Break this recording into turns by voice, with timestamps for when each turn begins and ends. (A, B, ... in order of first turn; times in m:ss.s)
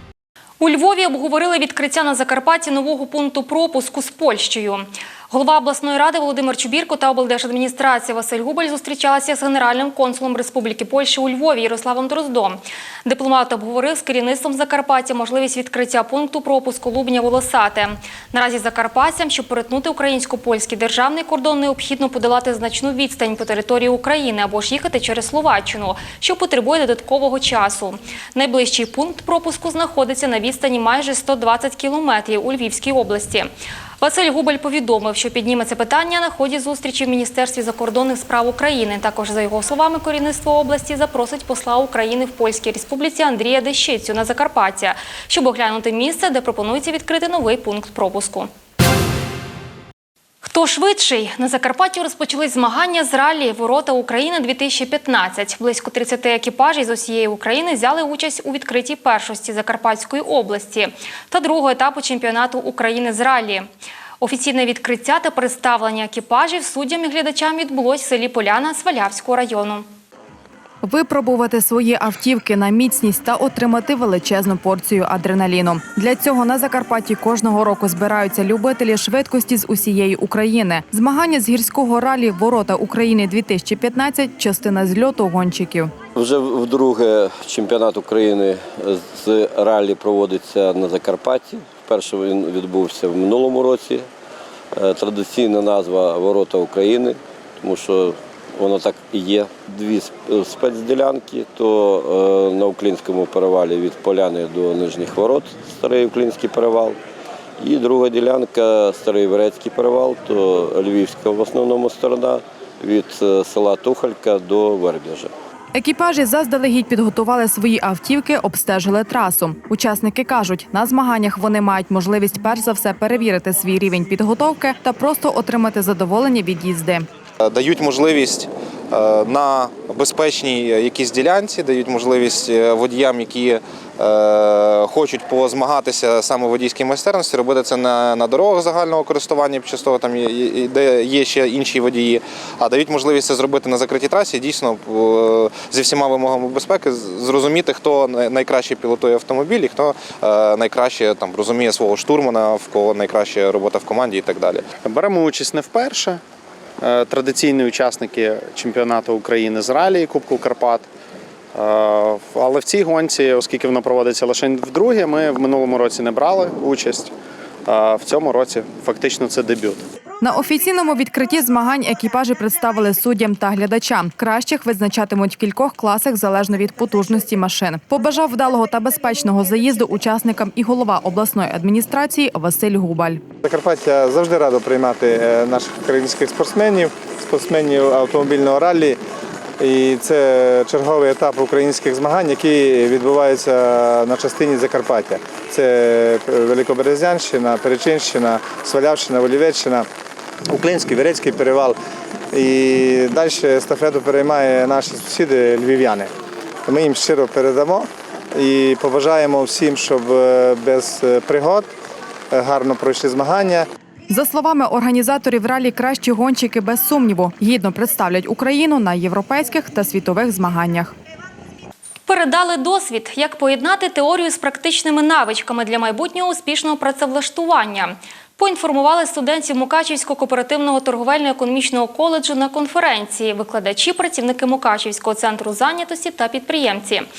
0:00.6-0:33.5 A
0:34.0-0:48.5 A
0:50.4-1:03.7 A
1:04.2-1:09.8 A
1:10.8-1:25.9 B
1:26.1-1:34.0 C
1:34.7-1:47.0 C
1:47.6-1:55.3 C
1:55.7-2:07.1 B
2:07.4-2:34.6 D
2:34.8-2:36.2 E
2:36.8-2:40.8 E
2:41.6-2:47.1 E
2:47.7-2:49.8 E
2:50.2-3:03.2 B
3:03.4-3:09.0 F
3:09.6-3:19.8 F
3:20.5-3:21.8 F
3:22.3-3:26.1 F
3:26.7-3:31.7 F
3:32.3-3:33.7 F
3:34.1-3:40.9 B
3:42.1-3:57.0 A